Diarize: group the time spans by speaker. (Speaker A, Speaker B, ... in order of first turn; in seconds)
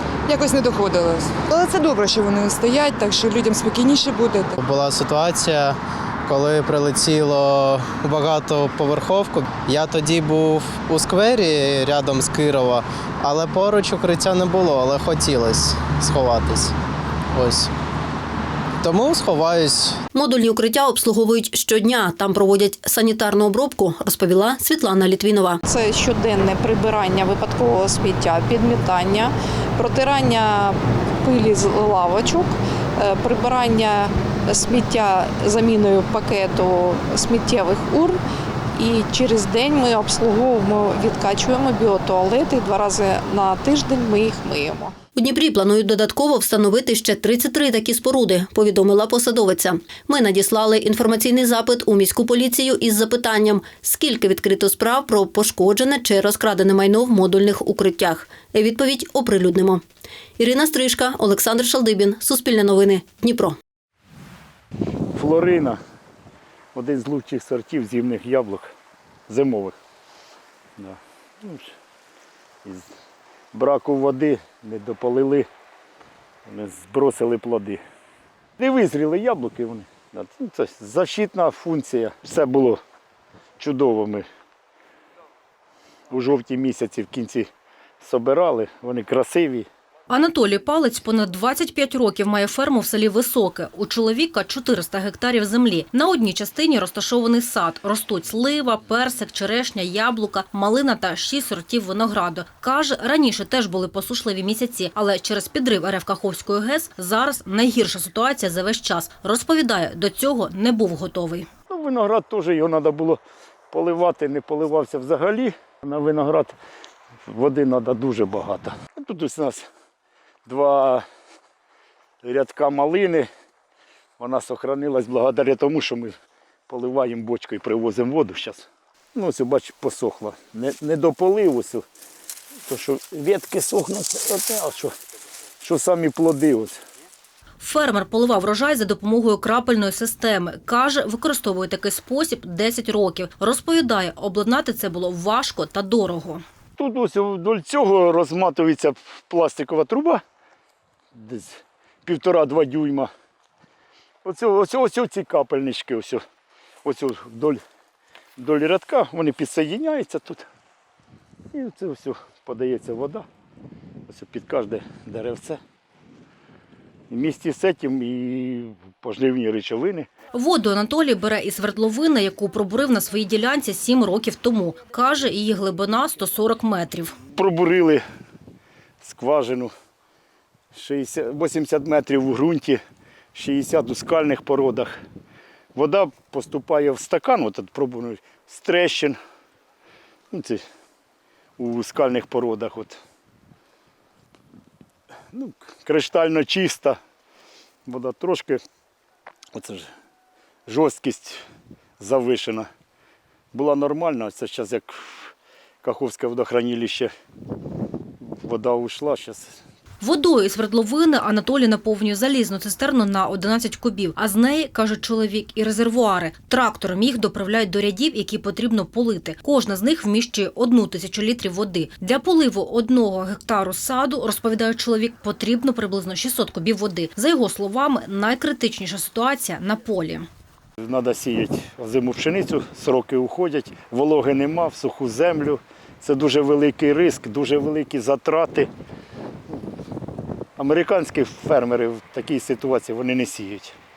Speaker A: 0.3-4.5
Speaker B: 4.6-16.7, 17.3-17.7, 18.8-20.0
Speaker C: 20.1-25.6, 45.1-59.8, 60.4-63.5
Speaker D: 25.6-38.2, 38.8-44.9
Speaker E: 65.1-65.8, 66.7-68.7, 69.3-69.8, 70.8-71.7, 72.6-72.9, 73.5-75.5, 76.5-77.8, 78.6-82.8, 83.6-84.2, 86.1-87.5, 88.0-89.7, 111.7-113.2, 113.7-116.5, 117.3-119.7, 120.5-121.0, 122.2-123.3, 124.2-126.1, 126.7-131.8, 132.7-134.9, 135.6-136.8, 146.8-150.2, 151.2-153.1, 154.2-156.2, 156.8-157.6, 158.4-160.4, 161.5-163.2, 164.1-165.6, 167.1-170.1, 177.3-178.0, 179.0-179.7, 180.7-182.8, 183.3-184.9, 185.7-189.2, 190.3-190.6, 191.6-193.0, 195.3-197.0, 197.9-198.6, 199.5-199.9, 200.7-201.4, 202.0-202.7, 203.5-205.3, 205.8-207.1, 208.4-209.5, 230.8-238.7, 240.6-243.7
Speaker F: 90.1-111.5, 137.6-146.4, 170.3-177.2, 210.0-230.3